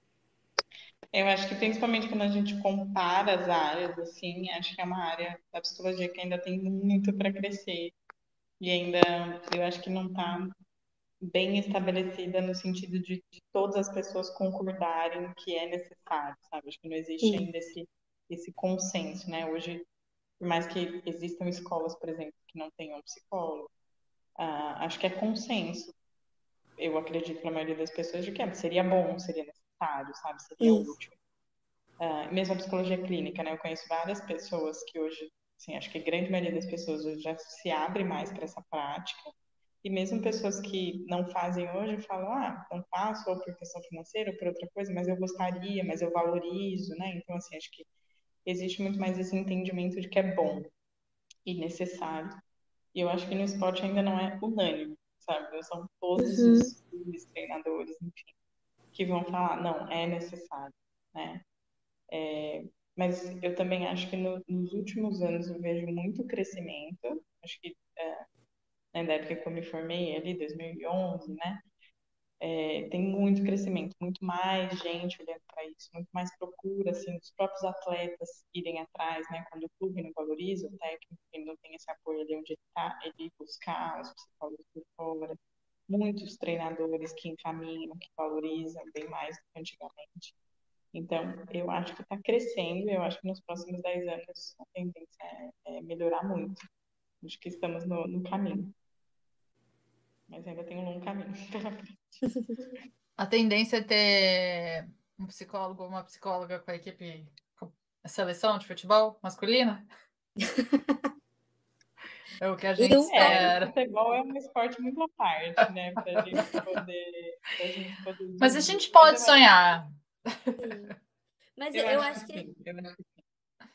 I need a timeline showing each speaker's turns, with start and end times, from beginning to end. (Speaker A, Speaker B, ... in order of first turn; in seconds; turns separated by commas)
Speaker A: 1.1-8.0, Speaker A: 8.6-10.5, Speaker A: 11.2-19.9, Speaker B: 17.2-17.5, Speaker A: 20.4-23.7, Speaker A: 24.4-25.9, Speaker A: 26.8-31.1, Speaker B: 30.6-30.9, Speaker A: 32.0-47.9, Speaker A: 48.5-50.7, Speaker A: 51.5-52.4, Speaker A: 52.9-58.3, Speaker B: 56.2-56.7, Speaker A: 58.9-61.4, Speaker A: 62.1-68.3, Speaker A: 68.9-71.7, Speaker A: 72.4-90.3, Speaker A: 90.9-96.7, Speaker A: 97.2-98.7, Speaker A: 100.3-102.7, Speaker C: 103.2-109.8, Speaker B: 110.4-111.0, Speaker C: 112.4-113.7, Speaker B: 112.8-113.5, Speaker A: 113.0-119.4, Speaker C: 116.0-116.7, Speaker C: 118.4-120.9, Speaker B: 120.6-121.0, Speaker B: 121.6-122.5, Speaker A: 121.7-123.1